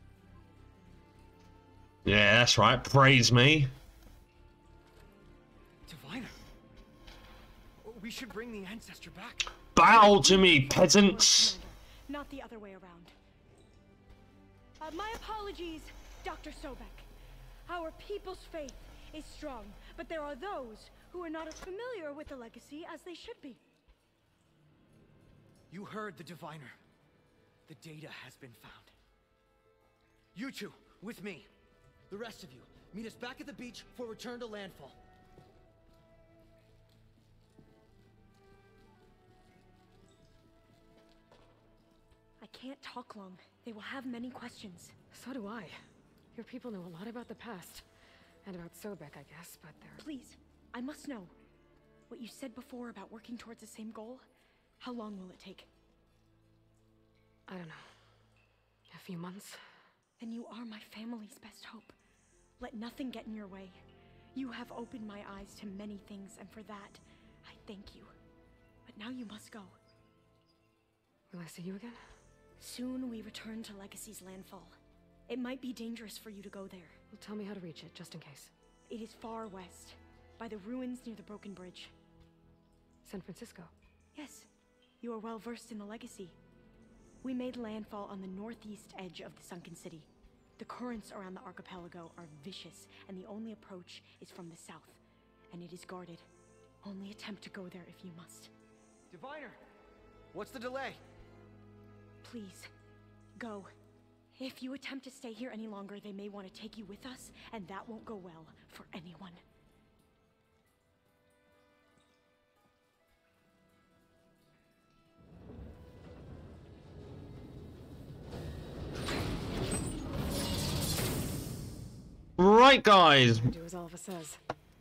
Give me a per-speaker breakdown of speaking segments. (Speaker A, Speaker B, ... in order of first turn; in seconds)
Speaker A: 2.0-3.7, 9.8-11.5, 122.4-123.5
Speaker B: 5.9-6.4, 7.8-9.5, 25.7-26.8, 27.7-28.9, 30.3-31.5, 32.1-35.0, 99.1-99.6, 100.3-101.0
Speaker C: 9.9-13.1, 14.8-17.1, 17.7-23.6, 42.4-44.9, 50.0-51.3, 52.1-54.2, 54.8-55.7, 60.2-61.9, 62.6-63.8, 64.3-68.1, 68.9-69.8, 72.6-74.8, 75.3-77.0, 78.9-81.9, 84.2-84.5, 85.0-86.4, 87.2-95.0, 95.5-96.2, 96.8-98.5, 102.2-102.7, 103.4-103.7, 104.3-109.4
Speaker D: 45.1-45.8, 46.4-47.9, 48.5-50.0, 57.5-57.9, 58.9-59.6, 71.3-72.0, 77.1-78.5, 83.0-83.7, 123.3-124.4